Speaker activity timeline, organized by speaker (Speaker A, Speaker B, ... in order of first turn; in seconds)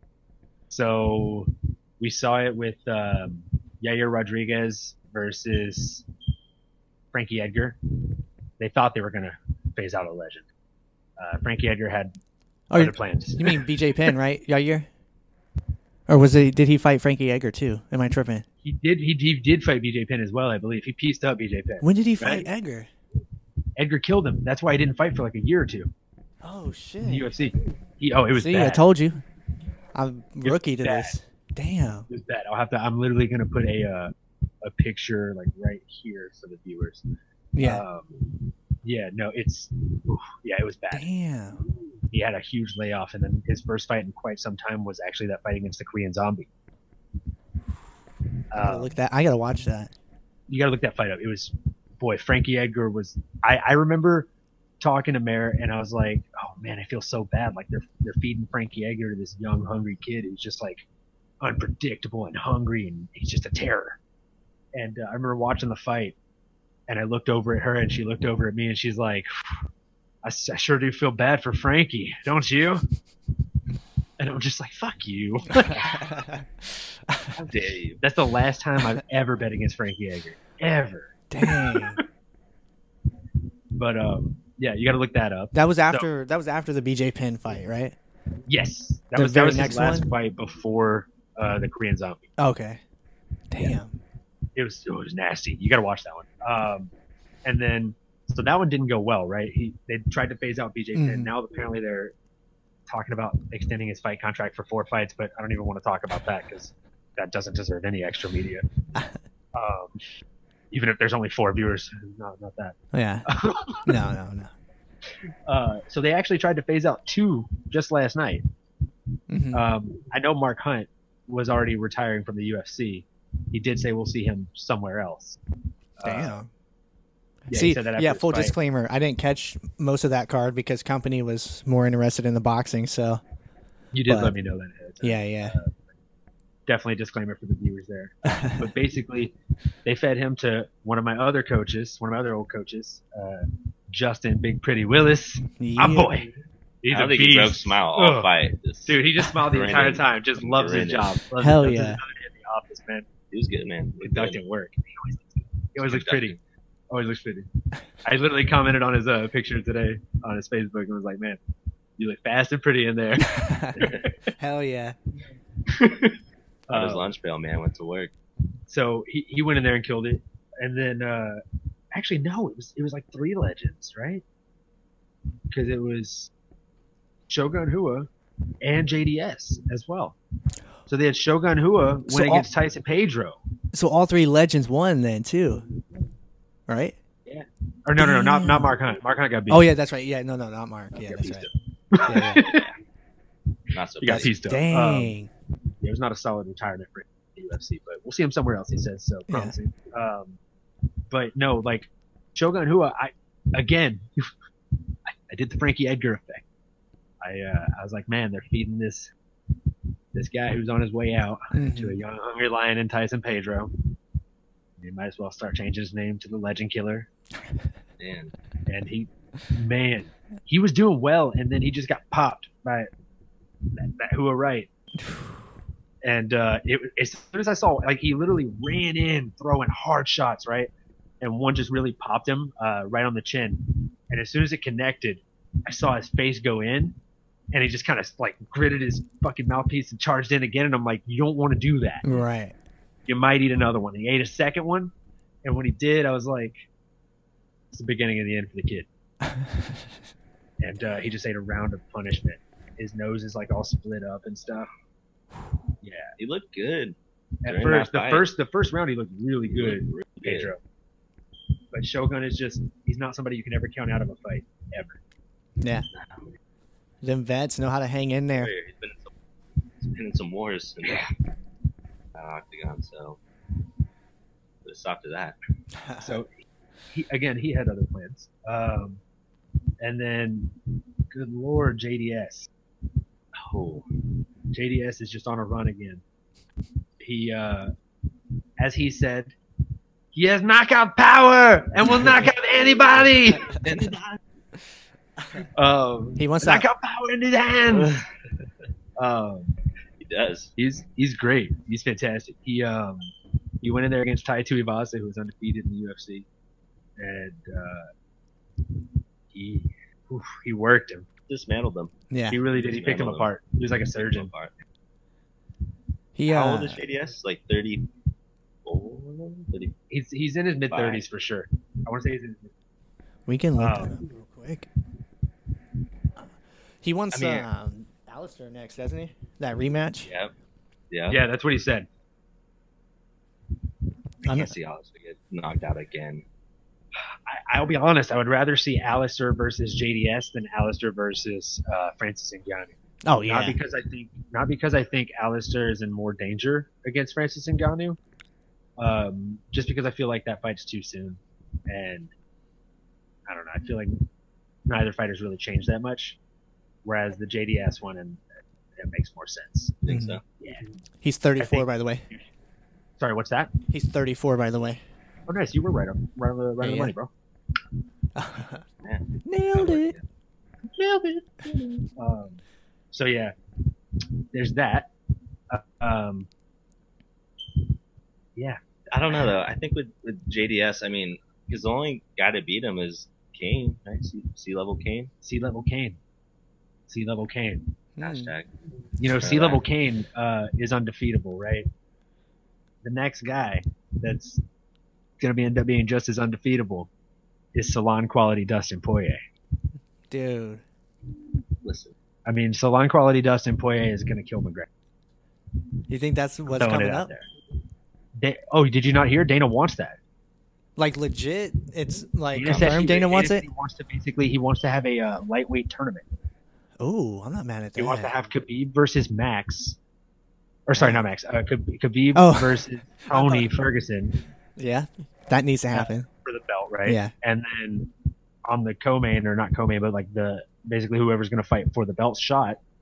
Speaker A: 0.7-6.0, 7.1-7.8, 8.6-10.4, 11.2-12.1, 12.7-13.6, 18.6-22.5, 23.8-25.9, 27.0-28.8, 30.4-31.1, 32.1-34.1, 34.6-37.0, 37.6-38.3, 38.8-41.1, 42.1-46.5, 48.5-48.9, 50.5-54.3, 54.8-60.8, 61.4-64.0, 64.7-66.2, 66.9-69.3, 70.2-72.8, 74.2-76.1, 77.3-82.0, 83.7-86.1, 88.5-92.3, 94.5-96.9, 97.4-102.1, 102.9-108.7, 109.5-110.0, 110.7-114.0, 115.5-118.4, 119.5-125.4, 126.0-126.4, 127.5-128.5, 133.9-135.8, 136.7-146.3, 146.8-148.3, 148.8-153.1, 154.0-156.4, 156.9-157.5, 158.0-161.4, 162.0-164.1, 165.7-166.2, 166.7-167.1, 168.7-171.4, 171.9-174.2, 175.5-176.3, 177.3-178.1, 178.6-180.2, 180.9-183.4, 187.2-189.7, 190.9-192.7, 194.0-195.1, 195.8-200.4, 201.1-204.1, 205.1-206.4, 207.2-209.1, 210.1-213.7, 214.8-217.1, 218.7-222.9, 223.7-224.7, 226.0-230.7, 231.2-237.0, 237.5-242.1, 243.1-244.9, 245.4-246.6, 247.7-248.9, 250.6-254.7, 255.8-256.1, 257.4-260.6, 261.7-265.0, 276.0-279.0, 279.8-280.6, 281.1-282.5, 284.5-286.0, 287.0-287.7, 288.6-289.3, 290.1-293.9, 295.5-297.9, 299.0-299.6, 300.6-306.2, 307.0-307.9, 309.3-311.1, 312.3-314.3, 319.9-322.5, 323.6-324.0, 331.1-331.9, 337.1-342.7, 343.2-348.0, 348.8-352.1, 353.3-354.0, 354.6-356.2, 356.8-358.2, 358.8-359.8, 360.4-360.7, 361.4-361.7, 363.0-363.5, 365.3-367.1, 371.9-372.4, 372.9-373.3, 374.3-374.9, 375.5-376.3, 385.2-386.0, 386.9-387.8, 389.0-391.7, 392.8-394.4, 395.2-396.9, 397.5-399.2, 402.2-404.7, 406.5-407.3, 408.2-410.0, 412.3-416.0, 417.8-419.8, 420.7-424.2, 425.7-427.9, 428.5-432.6
Speaker B: 12.7-14.9, 16.1-18.4, 21.8-22.9, 26.4-27.3, 28.4-29.2, 29.9-32.1, 37.5-37.8, 40.9-41.6, 48.6-49.9, 75.6-77.3, 81.3-82.0, 85.5-88.0, 89.2-90.1, 92.4-92.8, 93.5-93.9, 100.9-101.3, 112.9-113.3, 113.8-114.5, 119.3-119.6, 126.0-126.5, 127.5-133.2, 134.1-134.3, 135.0-135.6, 138.3-138.7, 145.6-146.1, 151.4-152.0, 163.2-163.8, 164.4-165.0, 182.1-182.5, 183.7-185.7, 186.7-187.0, 188.0-188.7, 189.5-191.5, 192.1-192.5, 194.1-195.3, 199.3-199.5, 211.5-211.9, 242.0-242.6, 249.2-249.8, 265.6-265.9, 267.0-268.5, 275.8-276.2, 296.2-296.7, 312.1-312.4, 316.1-316.8, 323.3-324.7, 326.8-330.1, 334.2-334.5, 343.0-343.6, 359.9-360.2, 361.0-362.0, 363.7-364.8, 366.6-366.9, 368.1-368.6, 369.2-369.9, 388.0-388.3, 400.1-400.6, 405.9-407.1, 410.8-413.4, 416.8-418.1, 420.8-421.0, 422.1-423.4, 424.6-426.1, 426.8-427.1
Speaker C: 77.5-78.0, 146.9-151.2, 153.3-154.4, 155.8-156.4, 166.7-168.1, 192.4-192.7, 193.7-194.3, 218.0-218.3, 256.2-258.3, 259.5-260.5, 265.9-266.3, 268.4-269.1, 269.8-271.1, 272.1-273.2, 274.6-275.4, 283.4-283.9, 293.4-294.2, 297.7-298.0, 300.0-300.5, 311.3-311.9, 312.5-314.6, 316.3-317.9, 318.6-319.7, 320.7-321.0, 327.1-327.5, 330.1-330.3, 330.9-331.2, 334.2-336.2, 359.8-360.2, 368.8-370.0, 378.9-385.1, 388.0-388.5, 389.2-389.6, 401.6-401.9, 412.4-412.8